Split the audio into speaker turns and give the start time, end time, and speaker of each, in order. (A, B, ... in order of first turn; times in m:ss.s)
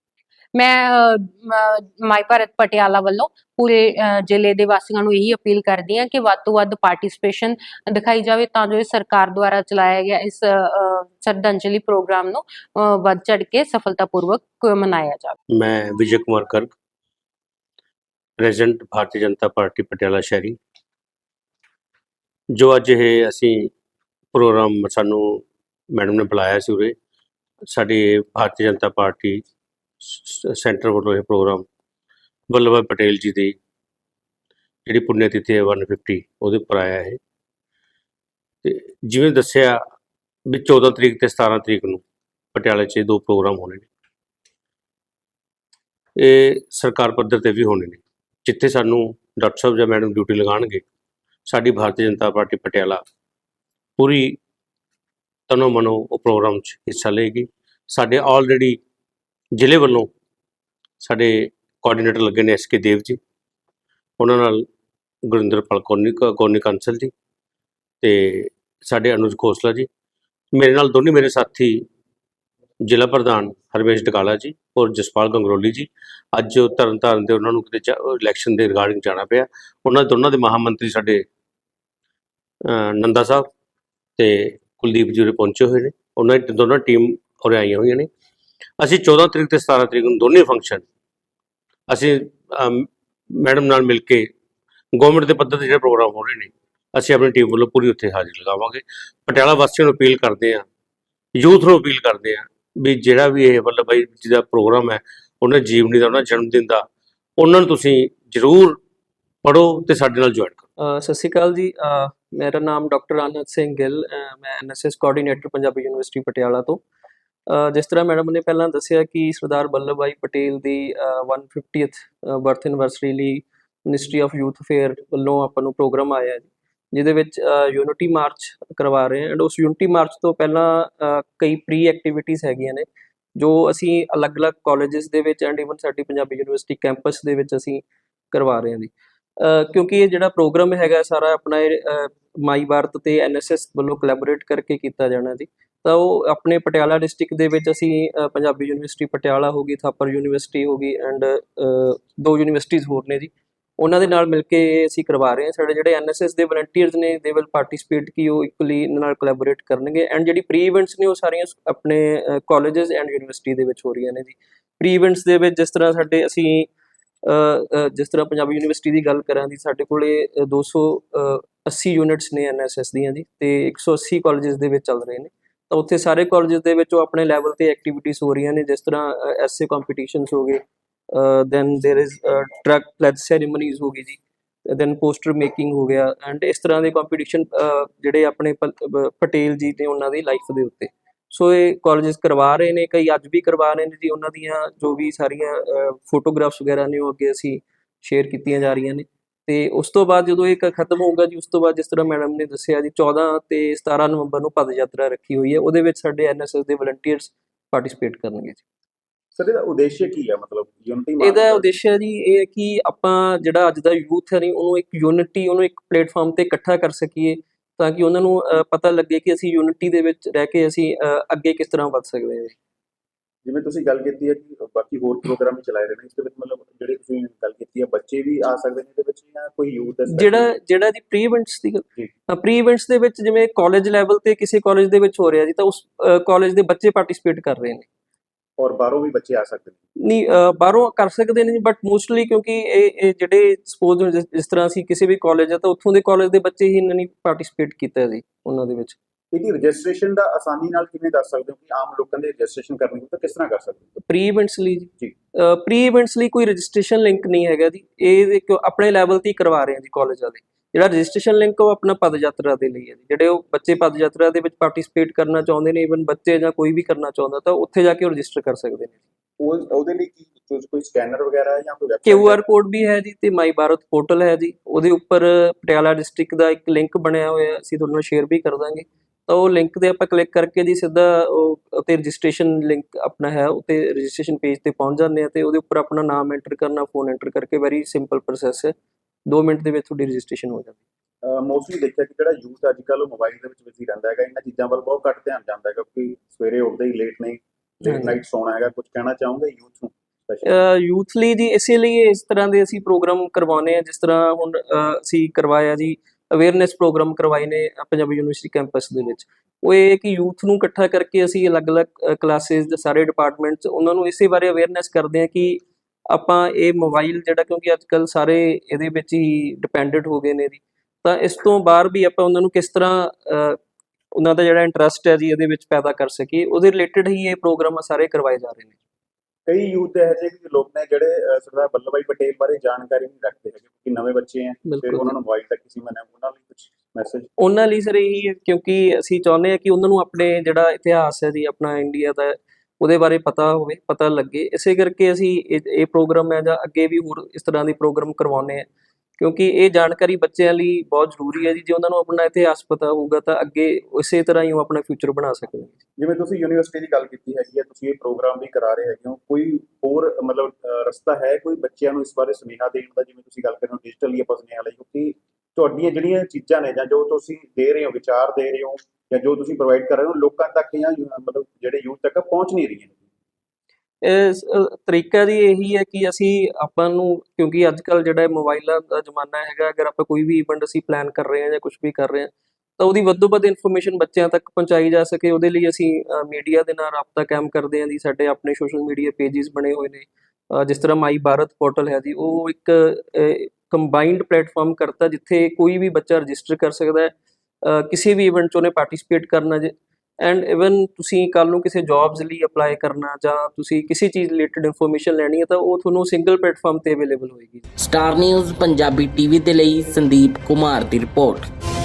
0:00.5-0:15.4 A
0:15.5-0:16.7 B
0:18.4-0:20.6 B
0:22.5-0:23.7 B
0:24.3-0:27.0 B
0:27.7-0:29.4 B
0:30.0-0:31.6 B
0:32.5-0:33.6 B
0:34.9-0:37.2 B
0:38.6-0:39.8 B
0:40.5-0:42.0 B
0:42.6-0:43.9 B
0:46.2-0:50.8 B
0:51.5-0:53.0 B
0:54.0-0:54.4 B
0:55.5-0:58.8 B
0:59.6-1:00.1 B
1:01.0-1:03.2 B
1:04.2-1:04.7 B
1:05.3-1:07.1 B
1:08.0-1:09.9 B
1:10.5-1:11.9 B
1:12.8-1:21.2 B
1:22.7-1:23.5 B
1:24.2-1:28.1 B
1:28.8-1:30.8 B
1:31.9-1:34.3 B
1:35.0-1:40.7 B
1:41.4-1:46.9 B
1:47.4-1:48.8 B
1:49.4-1:50.6 B
1:50.8-1:56.8 C
1:57.5-2:46.7 C
2:47.2-3:00.6 C
3:01.1-3:28.6 C
3:29.4-3:31.7 D
3:31.2-3:42.6 C
3:43.4-3:50.5 D
3:50.1-3:57.9 C
3:58.6-3:59.8 D
4:00.0-4:09.0 C
4:09.3-4:13.9 D
4:14.0-4:29.0 C
4:29.4-4:32.4 D
4:32.1-4:48.8 C
4:49.3-4:50.8 C
4:51.2-5:00.5 D
4:57.9-4:58.2 C
5:00.4-5:23.6 C
5:24.2-5:28.7 C
5:29.5-5:37.3 D
5:34.7-5:35.1 C
5:37.4-5:48.7 C
5:49.2-5:55.8 C
5:56.0-6:13.0 D
6:14.0-6:37.1 C
6:37.6-6:47.6 C
6:47.8-6:51.4 E